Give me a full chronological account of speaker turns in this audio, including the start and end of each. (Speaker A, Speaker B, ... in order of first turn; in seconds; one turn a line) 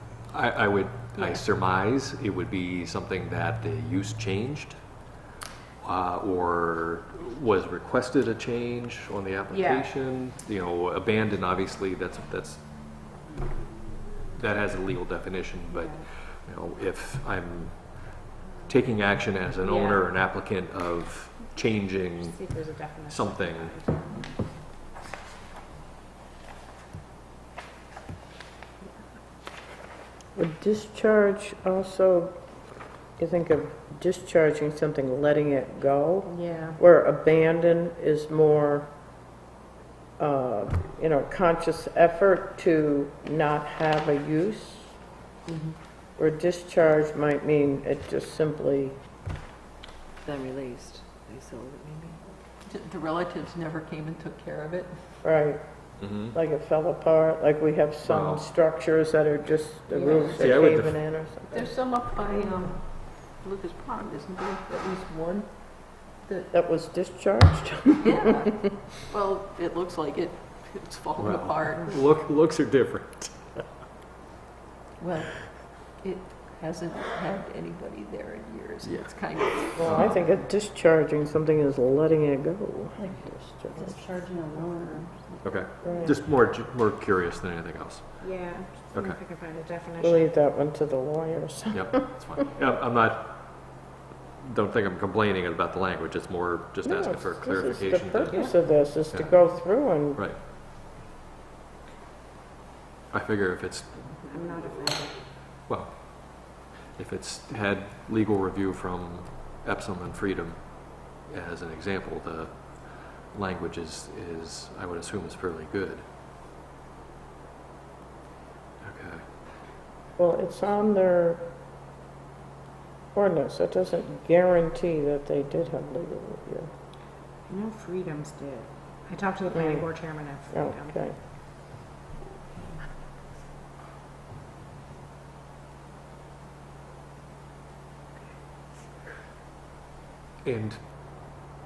Speaker A: 0.3-4.8
Speaker A: 5.8-13.4
Speaker B: 9.5-9.9
Speaker A: 14.3-23.8
Speaker B: 15.7-16.0
Speaker B: 19.6-20.0
Speaker B: 22.2-24.0
Speaker C: 30.3-32.3
Speaker C: 33.2-38.9
Speaker B: 36.3-36.8
Speaker C: 40.2-45.0
Speaker B: 45.5-45.8
Speaker C: 46.2-49.0
Speaker D: 50.3-52.2
Speaker E: 52.6-54.9
Speaker C: 55.2-55.6
Speaker A: 56.0-56.4
Speaker C: 56.2-61.7
Speaker A: 58.0-58.5
Speaker A: 60.4-61.0
Speaker E: 61.5-66.5
Speaker C: 66.5-68.5
Speaker E: 68.0-72.0
Speaker A: 71.2-73.6
Speaker E: 75.0-80.0
Speaker A: 78.8-79.1
Speaker A: 79.7-80.2
Speaker C: 79.8-84.0
Speaker E: 83.0-83.3
Speaker E: 84.0-85.4
Speaker B: 84.2-85.0
Speaker A: 85.4-88.3
Speaker C: 85.8-86.2
Speaker B: 88.2-90.3
Speaker A: 88.9-89.2
Speaker C: 90.0-92.1
Speaker A: 91.7-93.9
Speaker A: 94.4-98.5
Speaker C: 96.8-100.2
Speaker B: 98.3-98.5
Speaker A: 99.1-99.5
Speaker A: 103.1-104.2
Speaker B: 104.3-105.2
Speaker A: 105.7-112.5
Speaker A: 113.3-116.0
Speaker A: 118.8-119.2
Speaker C: 120.2-121.4
Speaker C: 123.1-126.7
Speaker B: 127.5-131.0
Speaker C: 129.5-129.9
Speaker C: 130.5-131.2
Speaker A: 140.4-140.8